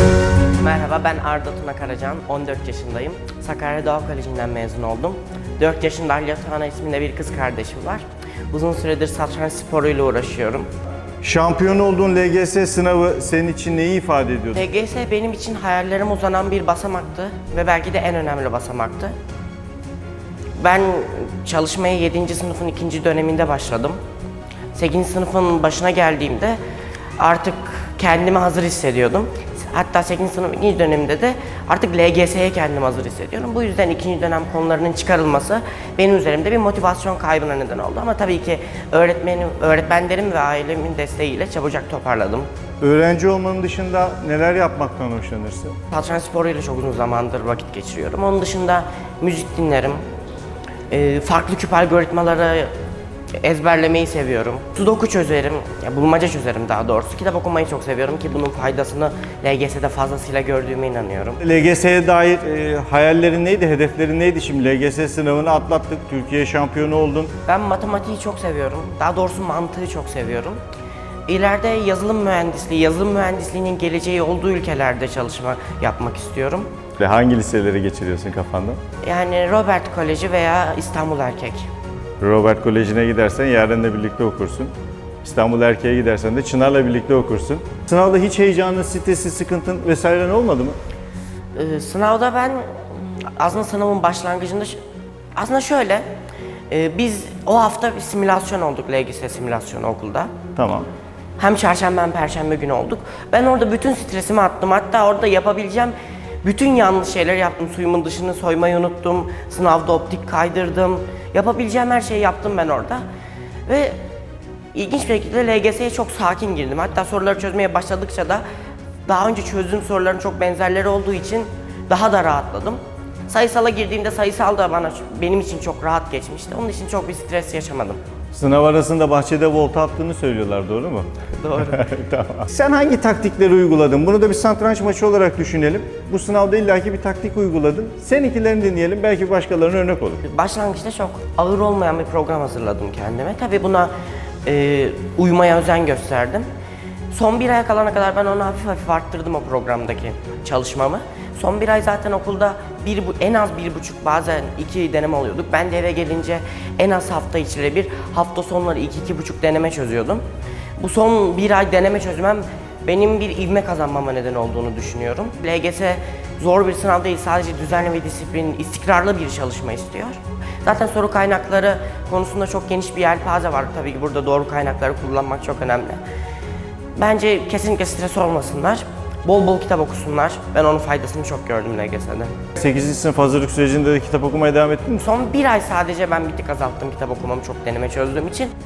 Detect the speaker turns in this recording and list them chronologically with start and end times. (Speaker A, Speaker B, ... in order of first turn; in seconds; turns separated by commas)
Speaker A: 0.6-10.7, Speaker B: 11.2-14.7, Speaker A: 14.5-19.1, Speaker A: 20.6-24.0, Speaker A: 24.7-26.6, Speaker A: 27.2-42.5, Speaker B: 42.8-45.8, Speaker A: 45.9-50.0, Speaker A: 50.9-52.7, Speaker A: 53.4-61.4, Speaker B: 61.4-67.3, Speaker A: 67.5-70.6, Speaker A: 71.3-76.7, Speaker B: 77.0-78.8, Speaker A: 79.0-81.7, Speaker B: 82.2-90.8, Speaker A: 91.6-94.8, Speaker A: 95.4-96.0, Speaker A: 96.7-100.3, Speaker B: 100.6-100.9, Speaker A: 101.4-113.0, Speaker A: 113.7-114.0, Speaker A: 114.7-118.4, Speaker A: 119.1-128.0, Speaker B: 128.3-131.1, Speaker A: 131.4-131.8, Speaker B: 131.6-140.2, Speaker A: 140.2-143.9, Speaker A: 144.4-146.5, Speaker A: 147.1-160.2, Speaker A: 160.8-176.0, Speaker A: 177.0-182.3, Speaker B: 182.6-185.0, Speaker A: 185.0-188.5